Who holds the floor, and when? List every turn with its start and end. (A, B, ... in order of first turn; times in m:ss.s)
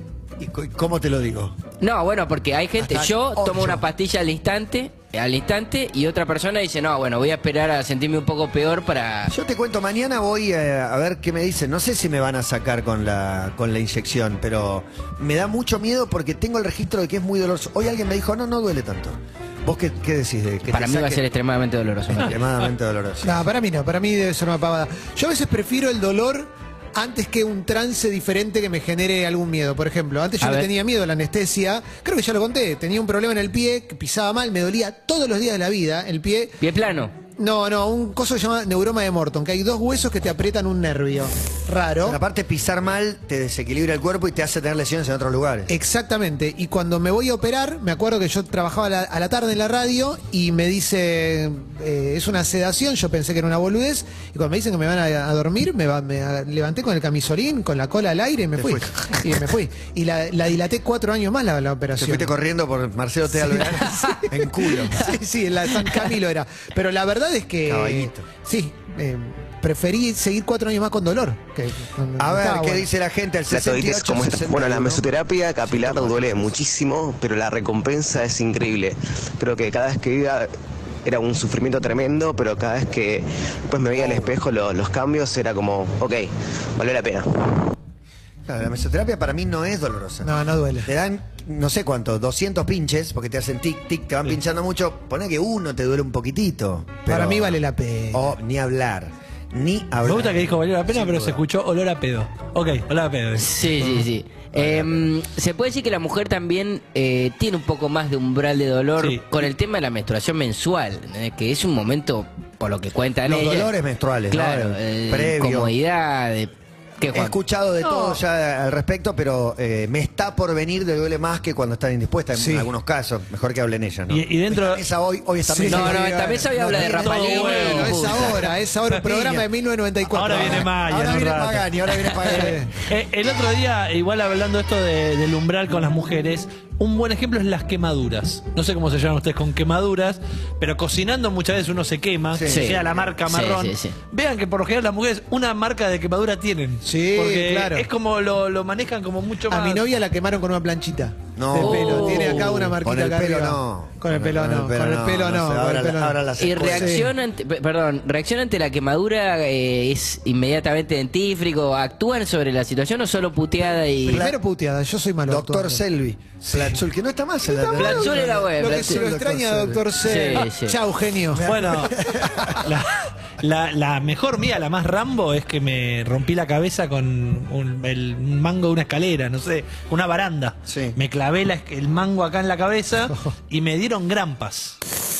0:00.4-0:01.6 A
0:01.8-0:09.3 B
0:02.8-0:03.8 A
0:09.3-0:21.2 A
0:20.7-0:22.4 B
0:22.1-0:23.4 A
0:23.2-0:36.6 C
0:30.4-0:30.7 B
0:36.6-0:37.1 B
0:37.4-0:42.2 C
0:42.0-0:45.7 A
0:45.7-1:02.3 C
0:58.6-0:59.3 A
1:02.0-1:05.1 A
1:03.3-1:12.8 C
1:07.6-1:08.3 A
1:12.2-1:15.1 A
1:13.5-1:20.5 D
1:15.6-1:16.6 A
1:21.0-1:27.7 D
1:23.9-1:24.4 A
1:28.4-1:37.6 A
1:30.2-1:30.9 C
1:37.1-1:38.2 C
1:38.1-1:41.4 A
1:40.0-1:43.6 E
1:43.4-1:53.7 B
1:44.5-1:45.1 A
1:49.0-1:49.2 E
1:53.2-1:55.7 A
1:54.3-1:57.4 B
1:57.1-2:08.4 A
2:02.3-2:02.7 C
2:04.1-2:04.8 E
2:05.5-2:10.7 C
2:05.7-2:08.3 B
2:07.0-2:08.3 E
2:08.9-2:09.4 E
2:10.1-2:11.7 E
2:10.3-2:12.7 A
2:12.2-2:12.7 C
2:12.8-2:29.9 E
2:22.3-2:22.9 A
2:22.4-2:24.0 B
2:26.8-2:27.9 C
2:29.5-2:37.1 C
2:31.4-2:37.0 A
2:31.6-2:32.6 B
2:36.4-2:44.3 B
2:44.1-2:44.4 A
2:44.1-2:45.8 C
2:45.3-2:50.4 A
2:46.4-2:46.8 C
2:47.5-2:52.6 C
2:47.7-2:49.0 B
2:50.0-2:50.8 B
2:51.3-2:52.7 A
2:51.4-2:51.9 E
2:52.6-3:04.8 E
3:00.7-3:01.0 A